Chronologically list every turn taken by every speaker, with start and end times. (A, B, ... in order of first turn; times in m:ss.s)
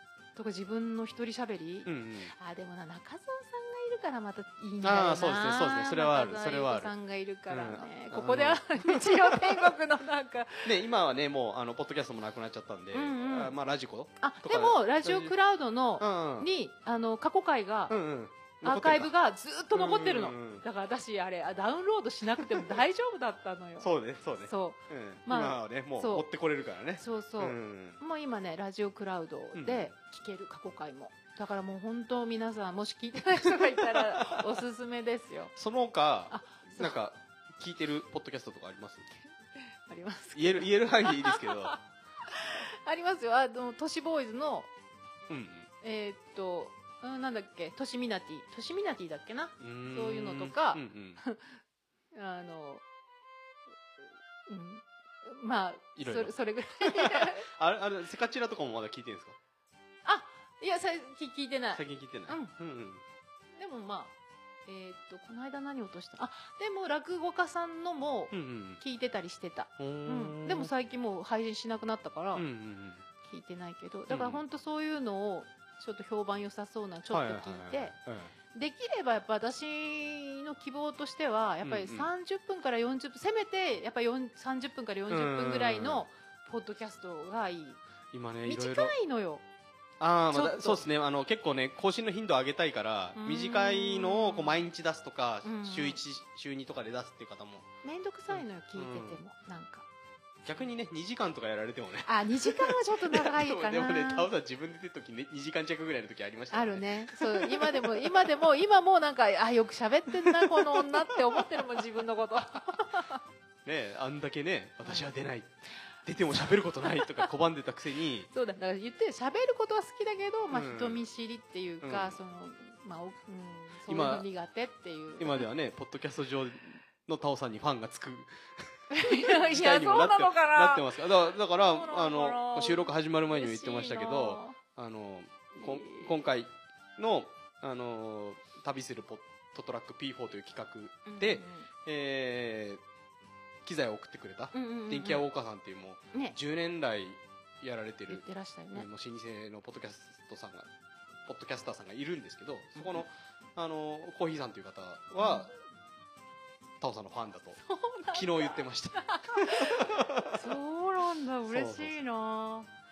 0:00.4-0:10.7 A
0:01.8-0:02.3 B
0:04.8-0:06.9 B
0:07.5-0:09.7 B
0:10.6-0:15.3 B
0:12.9-0:13.5 A
0:14.2-0:18.0 A
0:16.0-0:16.5 B
0:17.9-0:19.1 B
0:18.6-0:26.2 A
0:19.7-0:20.6 B
0:23.8-0:28.0 B
0:27.0-0:35.5 A
0:29.5-0:29.9 B
0:33.5-0:34.5 B
0:35.6-0:39.1 B
0:36.3-0:37.0 A
0:39.8-0:44.7 A
0:40.3-0:41.8 B
0:45.3-0:45.7 B
0:45.8-0:51.5 A
0:49.6-0:51.2 B
0:52.1-0:52.8 A
0:54.5-0:57.5 A
0:56.0-0:59.4 B
1:00.0-1:02.5 A
1:01.7-1:03.0 B
1:03.6-1:04.1 A
1:04.6-1:12.4 A
1:08.3-1:08.8 B
1:09.8-1:10.7 B
1:12.3-1:13.0 B
1:13.2-1:17.9 A
1:14.1-1:14.4 B
1:17.1-1:18.3 B
1:18.5-1:27.8 A
1:21.6-1:22.1 B
1:25.1-1:26.0 B
1:28.1-1:28.9 B
1:28.4-1:29.4 A
1:30.0-1:37.7 B
1:30.3-1:30.8 A
1:33.1-1:34.6 A
1:35.4-1:36.0 A
1:37.8-1:39.8 A
1:38.3-1:39.2 B
1:40.4-1:48.3 B
1:42.0-1:44.3 A
1:46.5-1:53.2 A
1:50.2-1:51.8 B
1:53.6-1:58.3 B
1:54.8-1:55.1 A
1:56.4-1:57.3 A
1:58.3-2:05.4 A
2:00.5-2:01.0 B
2:01.8-2:02.2 B
2:03.9-2:04.2 B
2:05.2-2:22.8 B
2:08.9-2:14.6 A
2:15.6-2:16.1 A
2:21.0-2:21.7 A
2:23.6-2:30.7 B
2:24.5-2:25.2 A
2:28.1-2:28.9 A
2:31.2-2:35.5 B
2:32.8-2:33.0 A
2:35.2-2:35.5 A
2:36.8-2:37.6 B
2:37.6-2:42.7 A
2:38.1-2:40.4 B
2:41.5-2:42.0 B